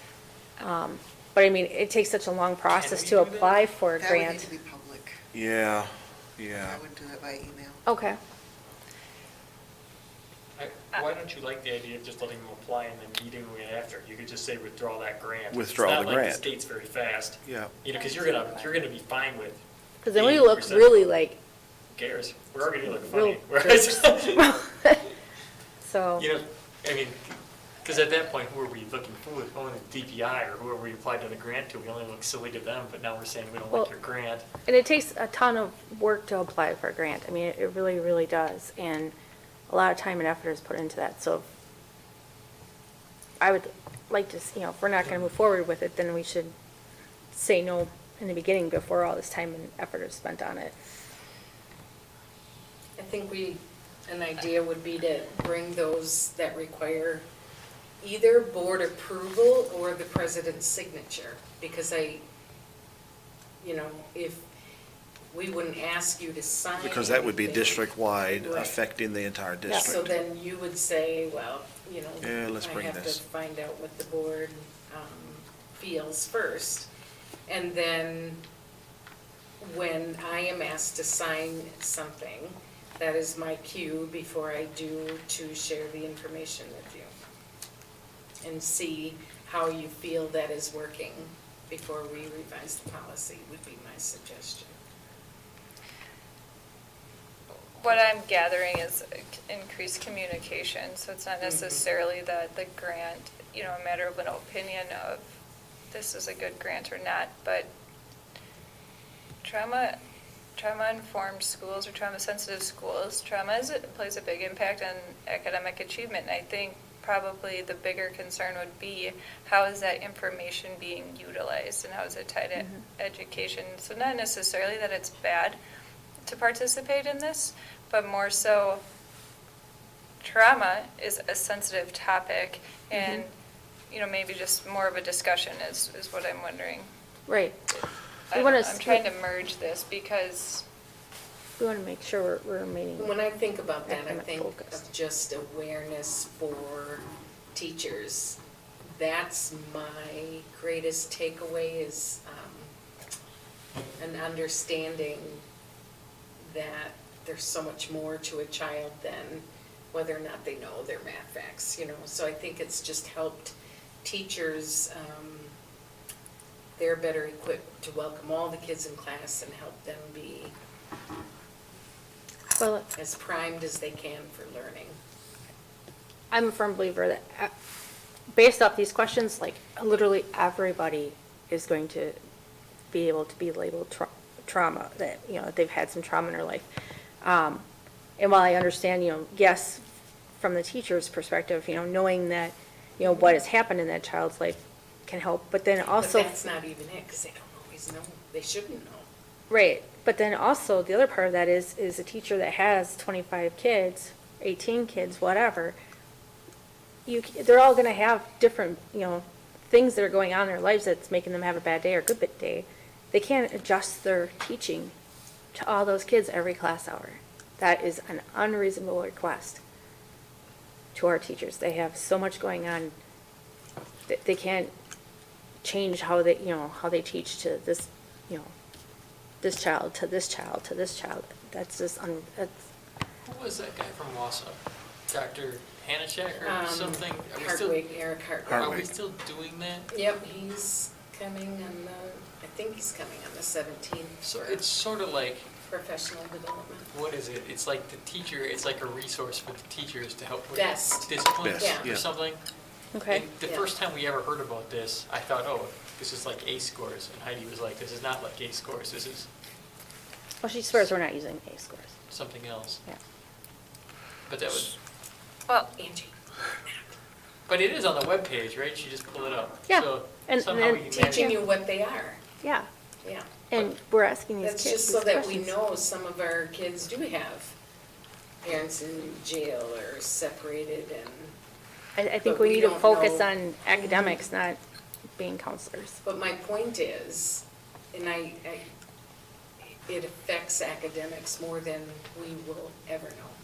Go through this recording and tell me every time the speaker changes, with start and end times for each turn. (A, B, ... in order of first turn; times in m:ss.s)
0:00.6-0:04.5 A
0:02.7-0:03.8 B
0:03.9-0:05.2 C
0:05.3-0:06.8 D
0:06.6-0:07.8 C
0:07.8-0:08.2 A
0:10.6-0:21.1 B
0:15.5-0:16.5 D
0:17.4-0:17.8 D
0:20.0-0:21.4 A
0:21.9-0:24.6 B
0:22.9-0:25.0 A
0:25.8-0:26.3 A
0:26.2-0:34.4 B
0:34.7-0:39.1 A
0:39.7-0:41.4 A
0:43.4-0:46.5 A
0:47.3-0:50.8 A
0:53.0-0:57.2 E
0:58.0-1:02.2 E
1:03.6-1:04.4 E
1:05.3-1:08.8 E
1:06.8-1:10.1 D
1:09.7-1:09.9 A
1:09.8-1:16.9 E
1:12.2-1:13.2 D
1:17.5-1:18.4 E
1:19.6-1:27.1 E
1:28.4-1:34.7 E
1:37.8-1:45.3 F
1:41.4-1:41.9 E
1:45.9-1:47.7 F
1:49.4-1:50.0 F
1:50.6-2:05.6 F
2:02.6-2:02.8 A
2:06.2-2:08.8 F
2:10.2-2:13.3 F
2:12.9-2:13.2 A
2:13.9-2:16.9 F
2:17.3-2:17.6 A
2:17.7-2:20.6 F
2:18.3-2:19.0 A
2:21.6-2:23.2 A
2:23.0-2:28.4 E
2:23.9-2:24.8 A
2:28.9-2:32.7 E
2:34.0-2:35.4 E
2:36.4-2:45.6 E
2:46.8-2:50.6 E
2:52.6-2:52.9 A
2:53.0-2:55.0 E
2:56.3-2:57.5 A
2:58.3-3:02.2 A
3:02.9-3:06.6 A
3:07.2-3:07.6 A
3:08.2-3:09.8 A
3:10.4-3:16.4 A
3:15.9-3:19.1 E
3:19.5-3:25.8 A
3:27.1-3:34.9 A
3:35.5-3:39.6 A
3:40.9-3:42.9 A
3:44.1-3:44.7 A
3:45.6-3:48.5 A
3:49.4-3:52.6 A
3:53.2-3:57.9 B
3:56.4-3:58.9 E
3:58.5-3:58.8 D
3:58.6-3:59.9 B
3:59.9-4:04.6 E
4:04.2-4:05.5 B
4:05.6-4:06.9 E
4:06.9-4:12.4 B
4:10.5-4:11.9 E
4:11.4-4:12.0 D
4:12.9-4:13.2 A
4:13.1-4:19.3 B
4:13.4-4:13.7 E
4:20.4-4:21.9 A
4:22.1-4:22.8 B
4:24.3-4:24.8 B
4:25.5-4:25.7 F
4:25.7-4:27.0 E
4:27.5-4:31.3 B
4:29.7-4:31.4 A
4:30.9-4:32.2 E
4:33.0-4:33.4 E
4:33.5-4:35.5 A
4:34.4-4:37.5 E
4:38.4-4:41.3 E
4:42.0-4:44.6 A
4:42.2-4:44.2 E
4:45.2-4:46.0 A
4:46.0-4:48.6 E
4:49.6-4:53.4 E